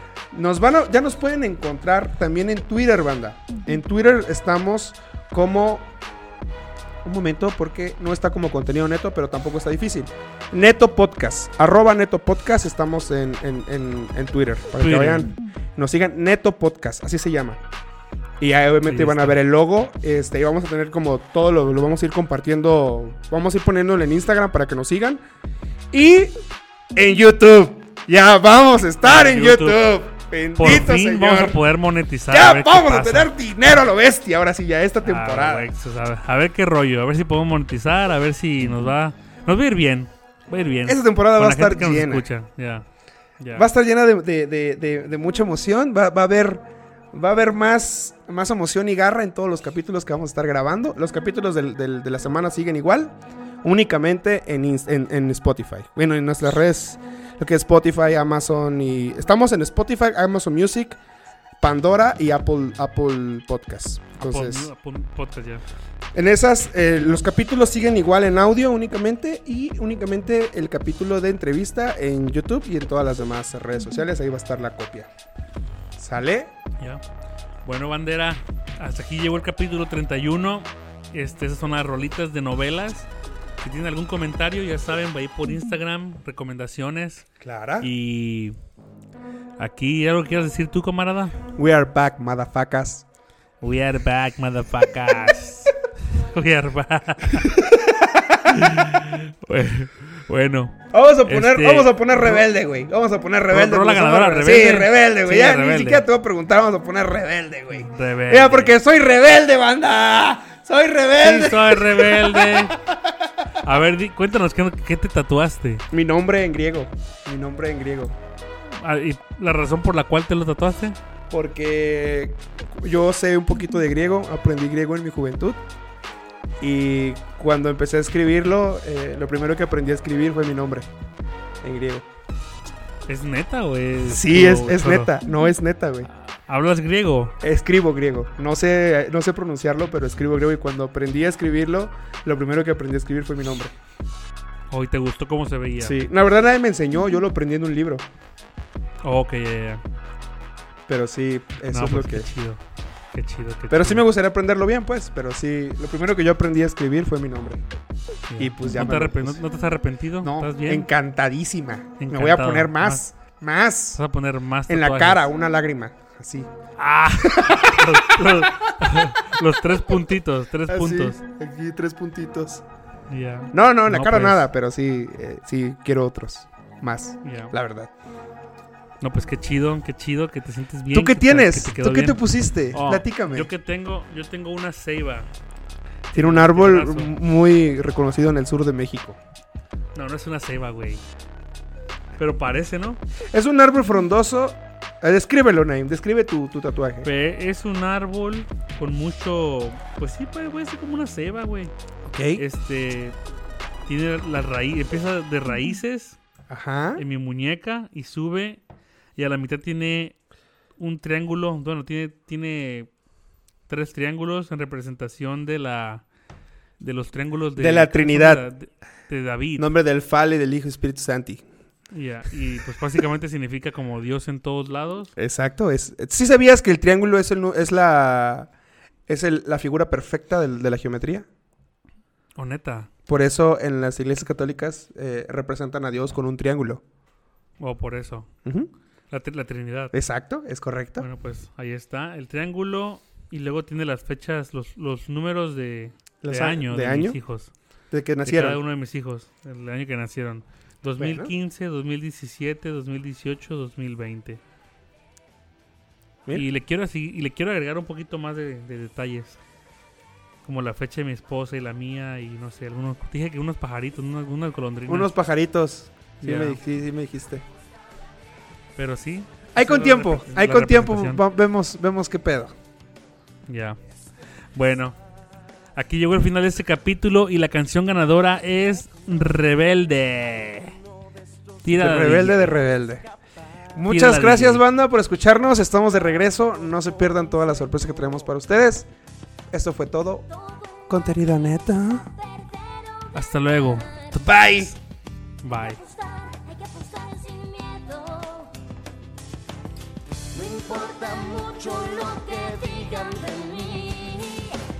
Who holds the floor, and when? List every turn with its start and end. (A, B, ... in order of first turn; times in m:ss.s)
0:00.3-0:05.9 A
0:07.0-0:17.6 A
0:14.8-0:15.3 B
0:18.4-0:25.2 A
0:18.8-0:19.4 B
0:25.9-0:26.4 A
0:26.9-0:31.6 A
0:29.0-0:29.9 B
0:30.6-0:33.3 B
0:32.3-0:35.7 A
0:35.0-0:42.9 B
0:40.9-0:42.3 A
0:43.4-0:43.7 B
0:43.6-1:01.0 A
1:01.6-1:04.7 A
1:04.2-1:05.6 B
1:06.2-1:15.1 A
1:16.0-1:16.5 A
1:17.6-1:27.3 B
1:27.4-1:27.9 A
1:27.8-1:28.6 B
1:29.6-1:31.4 B
1:31.6-1:33.0 A
1:33.6-1:37.6 B
1:37.4-1:38.7 A
1:38.5-1:42.4 B
1:40.9-1:53.1 A
1:43.5-1:46.0 B
1:47.7-1:48.8 B
1:51.2-1:52.8 B
1:53.6-1:55.8 B
1:55.9-1:58.2 A
1:58.8-2:01.0 B
2:01.3-2:05.6 A
2:06.6-2:10.9 A
2:11.6-2:12.1 A
2:13.1-2:15.1 B
2:14.0-2:16.1 A
2:16.1-2:17.4 B
2:17.4-2:23.8 A
2:24.7-2:26.0 B
2:25.8-2:28.0 A
2:29.0-2:29.8 B
2:30.9-2:32.3 A
2:31.7-2:32.6 B
2:33.1-2:34.1 B
2:33.7-2:37.6 A
2:38.3-2:40.9 B
2:38.4-2:39.4 A
2:40.2-2:44.0 A
2:42.0-2:43.0 B
2:44.0-2:45.3 B
2:44.7-2:46.5 A
2:46.8-2:51.2 B
2:47.2-2:48.7 A
2:50.7-2:52.6 A
2:53.1-2:54.5 B
2:53.5-2:57.9 A
2:57.2-2:57.5 B
2:59.0-3:02.2 B
3:00.9-3:03.5 A
3:02.7-3:05.3 B
3:06.1-3:07.1 B
3:06.1-3:09.2 A
3:10.0-3:11.0 B
3:12.2-3:13.0 B
3:13.3-3:17.1 A
3:17.0-3:21.7 B
3:22.0-3:22.4 A
3:22.4-3:23.2 B
3:23.9-3:26.2 B
3:26.5-3:27.0 A
3:27.0-3:28.6 B
3:29.2-3:30.2 B
3:30.8-3:32.9 B
3:33.7-3:36.0 B
3:36.8-3:39.7 B
3:37.6-3:38.5 A
3:39.6-3:41.5 A
3:41.9-3:45.1 B
3:45.2-3:48.5 A
3:49.1-3:51.3 A
3:52.4-3:52.9 B
3:53.1-3:56.8 A
3:57.6-3:58.3 B
3:58.4-3:58.7 A
3:59.1-3:59.9 B
3:59.9-4:01.1 A
4:01.0-4:07.5 B
4:06.2-4:07.2 A
4:07.9-4:08.6 A
4:08.2-4:14.4 B
4:11.0-4:11.3 A
4:16.3-4:19.4 B
4:20.4-4:25.1 B
4:24.9-4:27.4 A
4:26.2-4:26.6 B
4:28.8-4:31.2 B
4:29.5-4:32.5 A
4:33.5-4:33.8 B
4:34.6-4:35.0 B
4:35.8-4:40.8 B
4:41.6-4:42.6 B
4:41.7-4:43.1 A
4:43.8-4:48.9 A
4:43.9-4:44.6 B
4:49.5-4:50.3 A
4:50.9-4:52.1 A
4:52.2-4:53.1 C
4:53.1-4:54.8 B
4:53.7-4:54.1 C
4:54.2-4:54.7 A
4:55.4-4:55.8 B
4:55.6-4:58.5 C
5:00.3-5:04.6 C